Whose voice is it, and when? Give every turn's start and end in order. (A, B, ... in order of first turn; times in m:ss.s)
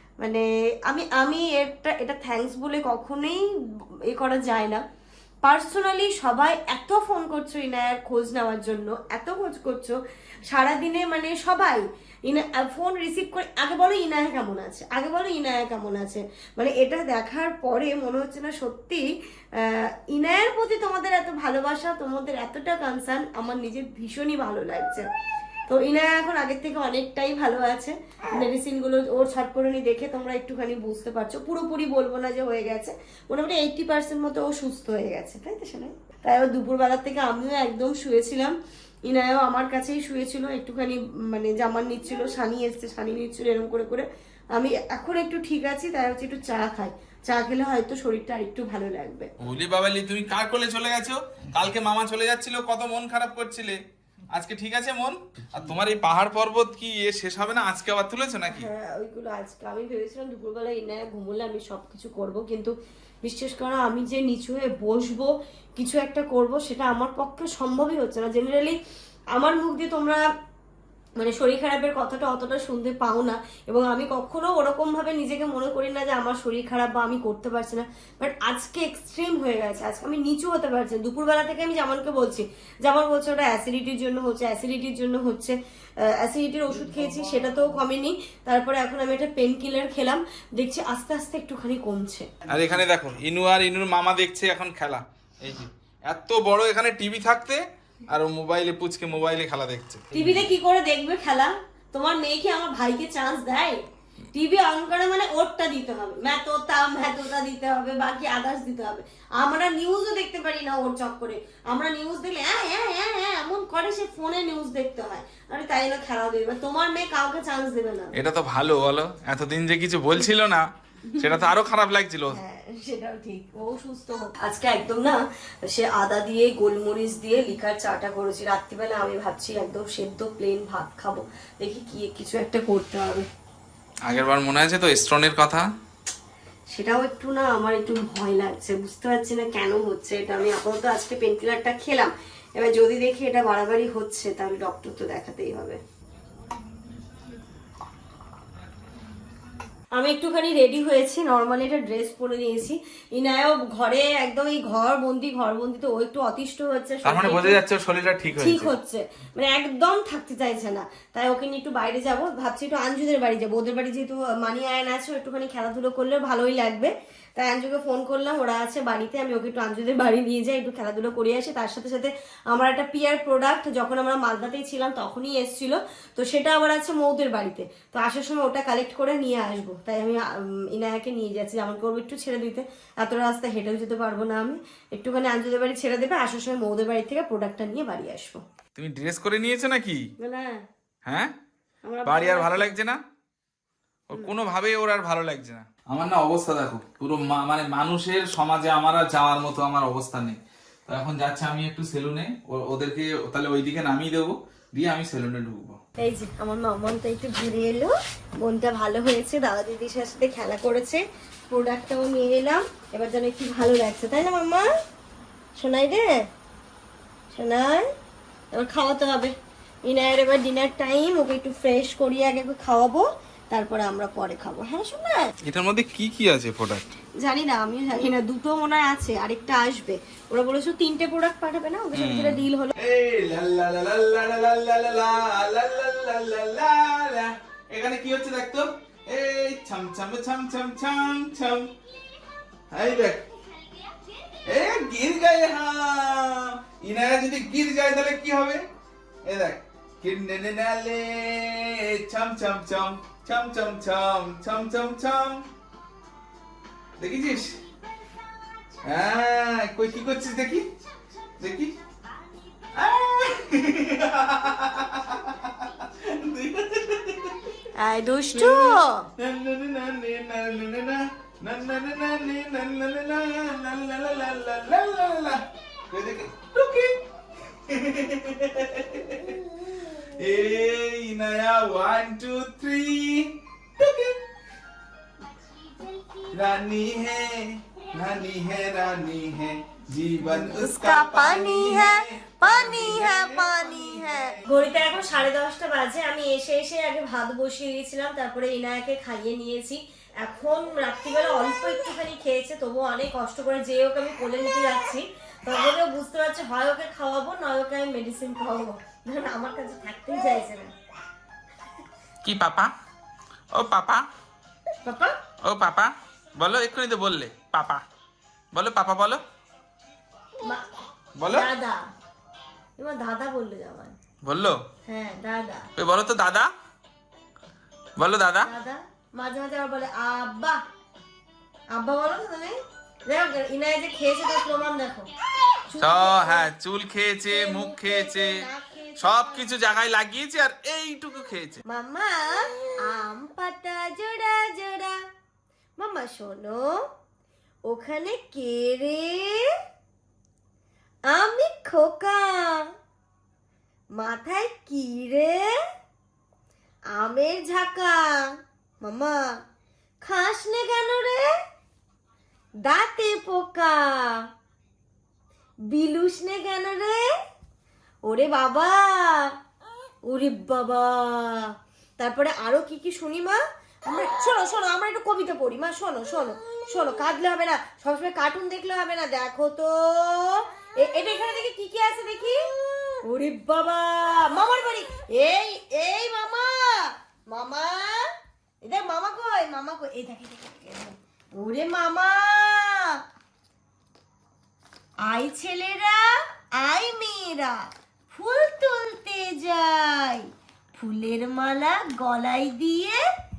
0:00.2-0:03.4 A
0:04.1-0:04.8 A
0:05.4-0:10.0 A
0:10.5-0:19.0 A
0:19.6-0:25.1 A
0:25.7-0:38.5 A
0:39.1-0:49.3 A
0:49.4-0:53.8 B
0:54.3-0:58.7 B
0:58.5-1:08.8 A
1:09.3-1:10.2 A
1:11.2-1:32.3 A
1:32.5-1:40.5 B
1:40.1-1:43.8 A
1:44.3-1:58.1 A
1:58.2-2:00.7 B
2:01.1-2:01.5 A
2:01.2-2:02.4 B
2:02.3-2:13.2 A
2:14.0-2:15.6 B
2:16.7-2:25.8 A
2:30.0-2:37.6 A
2:37.0-2:38.7 B
2:38.4-3:08.4 A
3:08.8-3:10.0 B
3:10.2-3:10.6 A
3:11.0-3:11.3 B
3:11.8-3:12.7 A
3:12.0-3:13.0 B
3:14.1-3:25.8 B
3:26.0-3:34.7 A
3:35.6-3:36.3 A
3:37.3-3:37.9 A
3:38.5-3:39.3 A
3:39.9-3:45.3 A
3:45.4-3:46.9 B
3:47.2-3:52.7 A
3:51.9-4:01.7 B
4:02.7-4:03.3 B
4:04.4-4:08.6 B
4:09.2-4:15.4 B
4:17.0-4:17.6 B
4:18.8-4:20.7 B
4:21.4-4:21.7 B
4:22.7-4:27.5 B
4:27.7-4:29.1 A
4:28.3-4:44.3 B
4:46.3-4:54.4 B
4:50.3-5:10.7 A
5:12.2-5:12.7 B
5:13.5-5:14.0 B
5:14.8-5:15.2 A
5:15.4-5:17.8 B
5:18.5-5:19.2 B
5:21.2-5:21.5 B
5:21.3-5:21.8 A
5:22.8-5:24.0 A
5:24.2-5:24.6 B
5:24.9-5:25.7 A
5:25.8-5:26.5 B
5:28.0-5:28.5 B
5:28.4-5:30.6 A
5:31.7-5:35.1 A
5:35.6-5:36.5 A
5:35.8-5:41.6 B
5:37.2-5:39.5 A
5:41.7-5:45.0 A
5:45.8-5:46.8 A
5:47.7-5:49.5 A
5:51.1-5:52.7 A
5:54.0-5:55.5 A
5:57.0-5:58.3 A
5:58.8-5:59.3 A
6:00.0-6:01.3 A
6:02.6-6:04.2 A
6:05.7-6:07.1 A
6:08.0-6:09.3 A
6:10.0-6:22.4 A
6:23.0-6:28.1 A
6:28.6-6:33.0 A
6:35.0-6:43.0 A